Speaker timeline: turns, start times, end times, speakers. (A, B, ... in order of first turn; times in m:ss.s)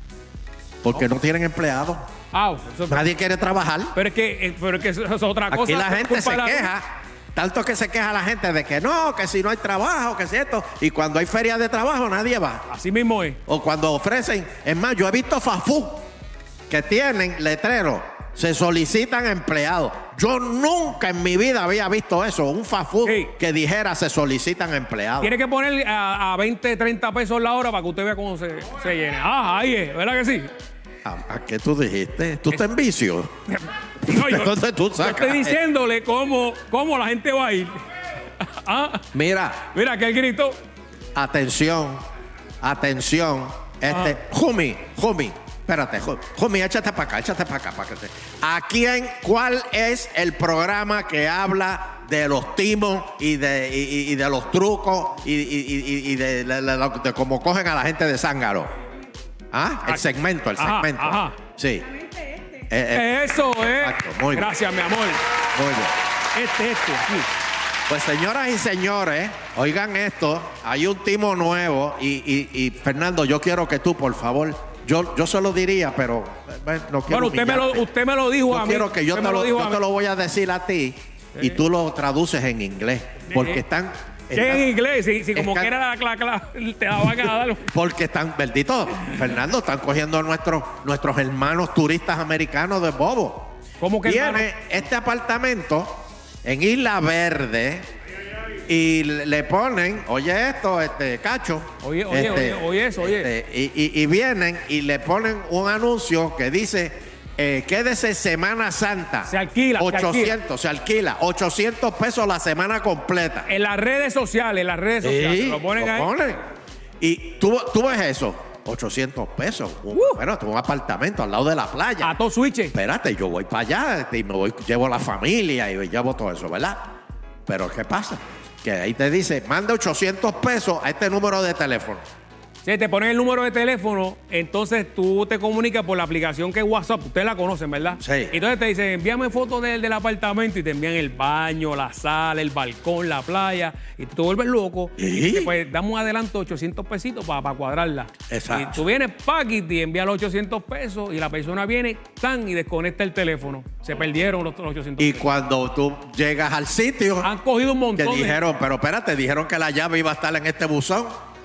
0:00.8-0:02.0 A
0:02.3-0:03.0 B
0:02.9-0:03.9 A
0:03.9-0:06.7 B
0:05.5-0:06.8 A
0:07.3-0:12.6 A
0:12.7-0:13.4 B
0:13.5-0:16.0 A
0:16.7-0:25.3 A
0:23.0-0:23.3 B
0:25.2-0:30.5 B
0:31.0-0:33.3 A
0:33.5-0:37.8 B
0:34.0-0:35.6 A
0:38.4-0:39.0 B
0:39.1-0:39.6 A
0:39.6-0:40.6 B
0:41.1-0:42.0 A
0:42.6-0:58.7 A
0:43.9-0:44.1 B
0:59.5-1:01.9 A
0:59.8-1:01.4 B
1:02.7-1:04.5 A
1:02.9-1:05.2 B
1:05.5-1:06.0 A
1:06.3-1:07.3 B
1:07.9-1:17.9 A
1:17.1-1:19.8 B
1:18.5-1:24.7 A
1:23.3-1:23.6 B
1:24.3-1:27.7 B
1:25.3-1:25.7 A
1:27.7-1:33.5 A
1:33.8-1:34.5 B
1:34.0-1:37.8 A
1:38.7-1:53.5 A
1:41.8-1:43.3 B
1:49.3-1:50.3 B
1:53.5-1:56.1 B
1:55.0-1:56.4 A
1:57.0-2:02.1 A
1:59.9-2:00.2 B
2:02.0-2:02.7 B
2:02.7-2:06.8 A
2:07.5-2:12.0 A
2:12.6-2:35.3 B
2:18.0-2:18.3 A
2:25.0-2:25.5 A
2:28.3-2:28.8 A
2:35.0-2:37.3 A
2:37.2-2:38.4 B
2:37.9-2:41.1 A